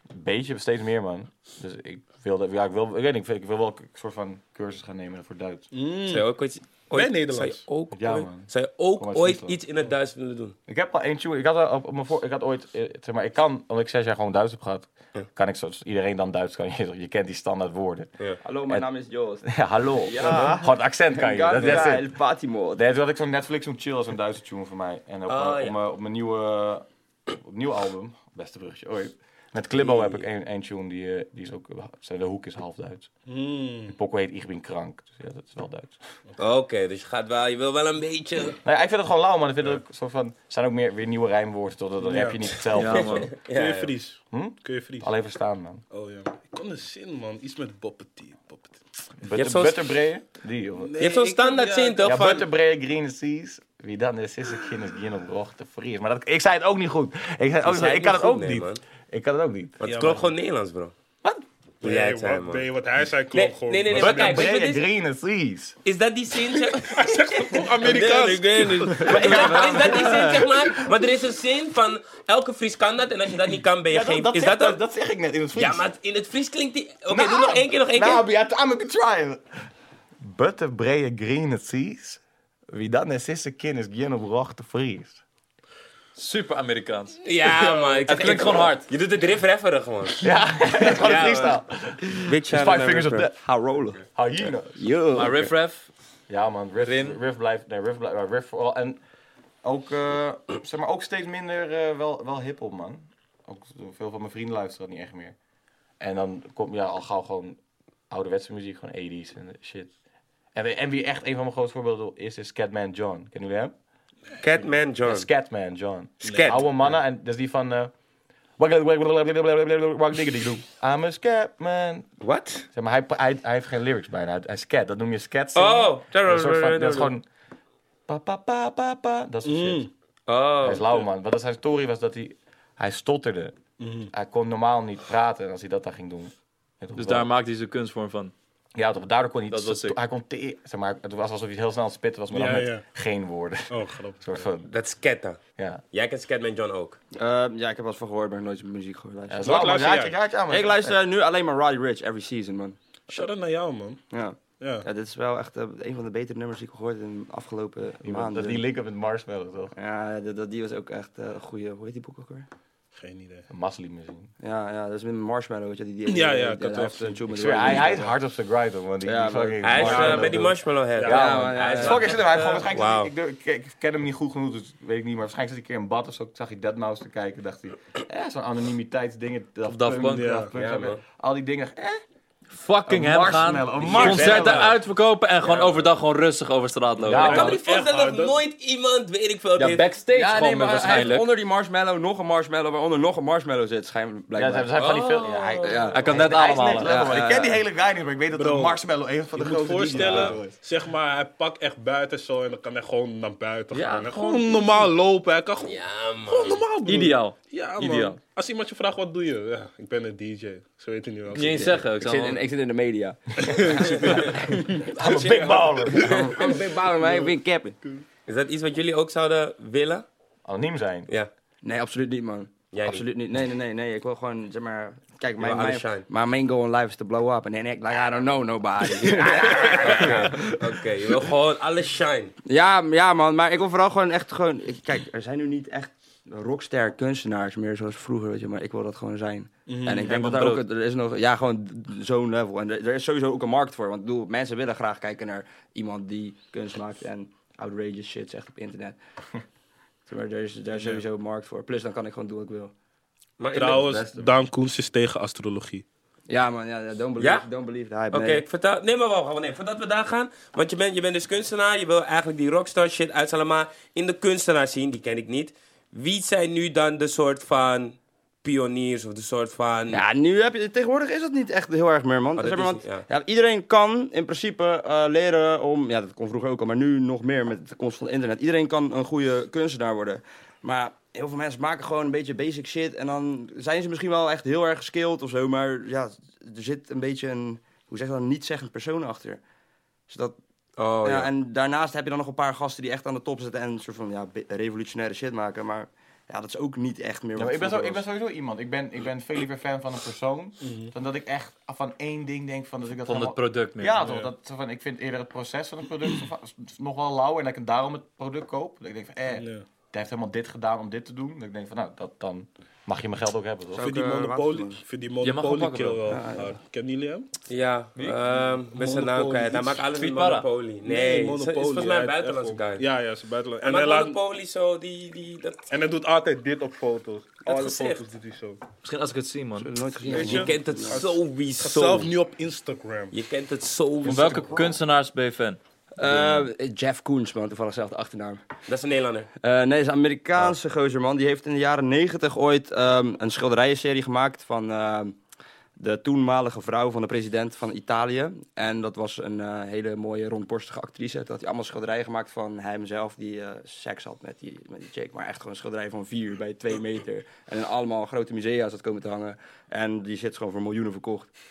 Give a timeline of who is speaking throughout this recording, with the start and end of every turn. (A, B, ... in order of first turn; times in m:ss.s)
0:00.1-0:05.6 A
0:05.7-0:06.3 B
0:06.1-0:10.6 C
0:06.9-0:07.6 B
0:07.9-0:09.6 A
0:10.7-0:18.1 A
0:18.4-0:22.8 D
0:19.4-0:22.1 A
0:22.7-0:33.1 A
0:25.3-0:25.8 C
0:29.9-0:30.2 C
0:33.3-0:34.0 B
0:33.9-0:36.0 A
0:36.4-0:38.6 C
0:38.6-0:43.3 A
0:42.0-0:42.6 B
0:42.7-0:43.3 E
0:42.9-0:43.9 C
0:43.4-0:45.1 B
0:44.3-0:45.8 A
0:45.9-0:48.8 B
0:49.2-0:50.9 A
0:49.3-0:49.9 C
0:50.8-0:52.3 B
0:51.0-0:52.4 C
0:52.0-0:59.8 A
0:57.6-0:58.8 C
0:59.8-1:00.9 C
0:59.8-1:00.3 B
1:01.8-1:02.7 C
1:01.8-1:04.5 B
1:03.3-1:04.8 C
1:03.9-1:05.8 A
1:05.8-1:14.8 C
1:06.5-1:09.9 B
1:09.0-1:10.5 A
1:13.9-1:15.8 A
1:15.5-1:18.2 C
1:17.1-1:19.4 A
1:20.2-1:25.2 A
1:26.2-1:28.9 E
1:27.2-1:30.3 C
1:30.2-1:33.4 A
1:30.8-1:31.6 C
1:32.2-1:33.3 C
1:33.4-1:34.0 D
1:34.0-1:34.9 A
1:34.8-1:35.5 D
1:35.1-1:35.9 E
1:36.3-1:39.0 A
1:36.8-1:37.2 E
1:39.6-1:45.3 A
1:46.0-1:47.6 A
1:48.1-1:49.9 A
1:50.5-1:53.7 A
1:54.4-1:55.3 C
1:55.0-1:57.9 A
1:56.2-1:56.6 C
1:56.3-1:56.6 B
1:58.6-2:02.1 A
2:02.2-2:02.7 C
2:02.7-2:07.2 A
2:05.5-2:07.1 C
2:08.1-2:09.9 A
2:09.4-2:09.9 B
2:10.3-2:11.0 C
2:10.6-2:13.6 A
2:13.8-2:14.1 B
2:14.1-2:17.3 A
2:16.9-2:18.3 E
2:18.7-2:24.7 A
2:19.5-2:20.0 E
2:22.3-2:22.8 B
2:23.7-2:24.4 B
2:24.7-2:25.4 C
2:25.6-2:25.8 A
2:25.9-2:27.0 C
2:27.1-2:29.8 D
2:29.3-2:31.0 A
2:29.4-2:30.2 B
2:30.5-2:32.8 D
2:33.1-2:34.0 B
2:34.1-2:38.6 D
2:34.6-2:34.8 B
2:38.0-2:39.7 A
2:39.8-2:42.4 D
2:42.9-2:43.5 B
2:43.5-2:44.3 A
2:44.4-2:48.1 D
2:46.0-2:47.9 B
2:47.3-3:02.0 A
2:49.0-2:50.4 D
2:49.6-2:53.1 C
2:49.8-2:50.4 B
2:51.0-2:51.3 B
2:51.0-2:52.1 D
2:51.9-2:52.6 B
2:59.7-3:00.3 E
3:00.0-3:00.5 B
3:00.6-3:01.0 C
3:02.5-3:07.5 E
3:02.9-3:04.7 A
3:03.8-3:04.7 C
3:07.0-3:07.6 A
3:07.1-3:09.8 C
3:07.1-3:08.4 B
3:09.6-3:11.3 E
3:10.1-3:14.7 D
3:14.3-3:20.5 A
3:14.8-3:15.8 C
3:15.6-3:17.6 D
3:15.8-3:16.9 E
3:18.3-3:18.8 B
3:19.3-3:31.8 B
3:19.9-3:20.3 D
3:23.7-3:24.9 E
3:25.6-3:26.6 C
3:26.8-3:28.2 E
3:31.3-3:32.4 E
3:31.5-3:34.9 D
3:33.4-3:34.9 B
3:34.8-3:36.3 A
3:35.0-3:36.3 C
3:36.0-3:37.8 D
3:38.2-3:40.0 C
3:40.4-3:41.1 A
3:41.6-3:50.5 D
3:42.7-3:43.0 C
3:45.4-3:46.1 C
3:49.1-3:52.3 C
3:52.5-4:09.0 D
3:59.7-4:00.1 B
3:59.9-4:00.6 E
4:10.1-4:12.7 D
4:13.4-4:13.8 C
4:13.5-4:15.8 B
4:13.5-4:14.3 A
4:16.3-4:18.4 D
4:17.2-4:17.4 C
4:18.1-4:30.0 C
4:29.9-4:49.4 D
4:32.4-4:33.0 C
4:50.1-4:50.4 D
4:50.8-4:51.3 C
4:51.0-4:58.0 D
4:57.4-5:14.0 A
5:00.6-5:00.9 B
5:03.0-5:04.0 E
5:04.0-5:04.3 B
5:09.4-5:09.6 B
5:13.8-5:17.3 B
5:13.8-5:14.8 D
5:15.2-5:16.0 E
5:16.1-5:16.6 D
5:17.5-5:22.8 C
5:18.7-5:19.9 B
5:19.9-5:20.4 E
5:20.8-5:24.2 B
5:23.6-5:25.6 C
5:25.7-5:28.6 B
5:27.4-5:28.0 C
5:28.8-5:29.7 E
5:29.6-5:31.0 D
5:30.1-5:33.1 B
5:30.1-5:32.1 C
5:33.1-5:34.5 C
5:34.0-5:35.6 E
5:34.0-5:34.6 B
5:36.0-5:38.4 D
5:38.7-5:39.3 C
5:39.4-5:45.2 D
5:45.8-6:01.3 D